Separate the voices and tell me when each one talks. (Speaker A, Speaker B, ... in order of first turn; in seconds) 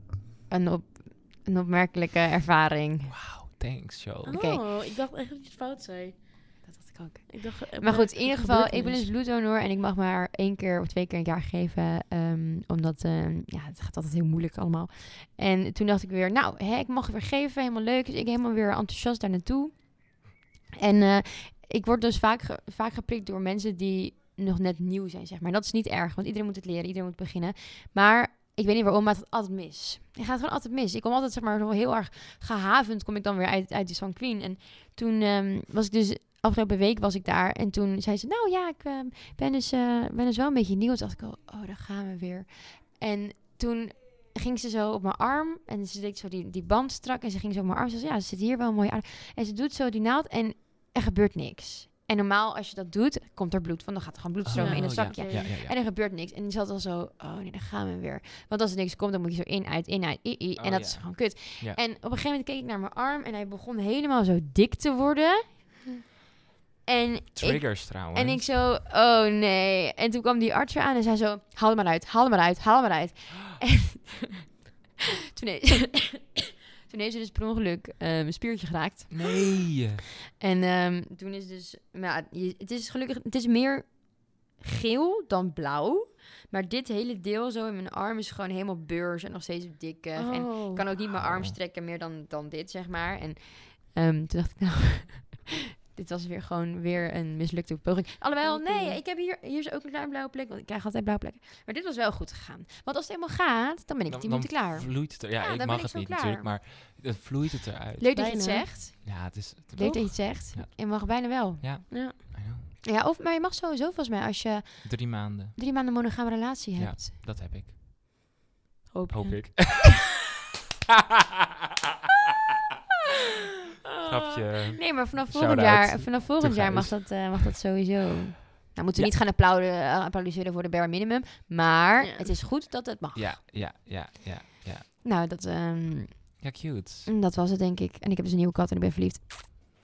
Speaker A: 0.5-3.1, 4.3-4.6, 6.6-65.8, 66.8-74.3, 75.3-79.8, 80.4-106.5, 108.0-112.3, 112.8-117.1, 124.8-133.4, 135.0-139.5
Speaker B: 3.1-4.4, 54.5-55.8, 60.6-61.8, 67.3-68.5, 79.1-80.0, 91.1-91.6, 104.1-108.1, 109.0-112.7, 114.8-115.6, 116.8-117.7, 119.1-120.1, 124.1-127.5, 133.2-134.9, 136.4-137.1
Speaker C: 4.2-6.6, 7.3-9.1, 54.6-55.5, 90.2-90.9, 98.4-99.0, 108.2-108.7, 111.9-112.2, 118.9-119.8, 132.0-132.3